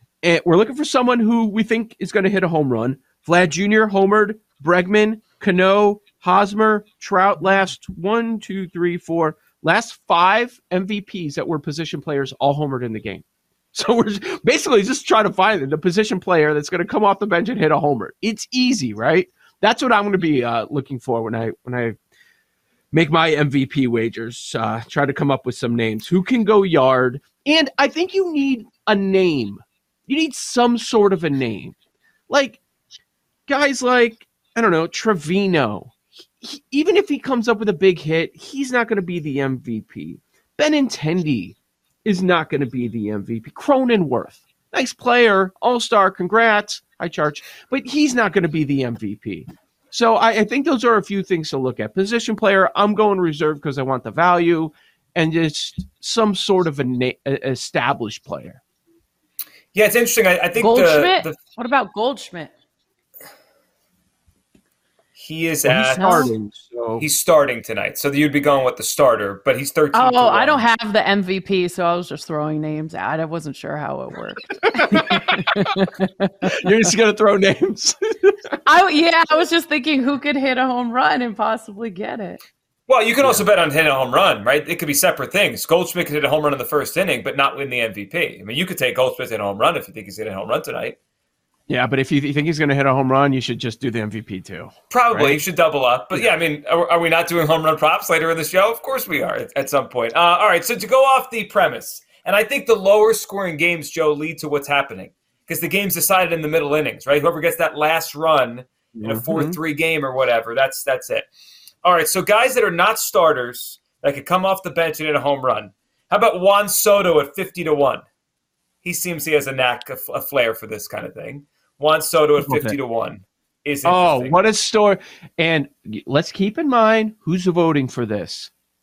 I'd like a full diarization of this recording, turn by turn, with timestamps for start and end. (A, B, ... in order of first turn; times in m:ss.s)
0:00.2-0:13.2 A
0:13.7-0:22.0 A
0:22.9-0:31.8 A
0:32.3-0:32.6 A
0:33.5-0:58.6 A
0:59.7-1:01.4 B
1:00.6-1:02.5 C
1:05.2-1:06.3 B
1:05.6-1:07.0 A
1:05.9-1:06.3 C
1:07.0-1:10.6 B
1:09.9-1:16.7 C
1:14.9-1:15.6 A
1:16.5-1:18.6 A
1:18.6-1:22.4 C
1:22.9-1:31.0 B
1:23.2-1:23.5 A
1:31.7-1:35.4 A
1:34.9-1:51.3 B
1:49.0-1:49.6 A
1:51.8-1:58.0 B
1:58.8-2:04.4 B
2:02.4-2:02.8 A
2:03.8-2:08.5 A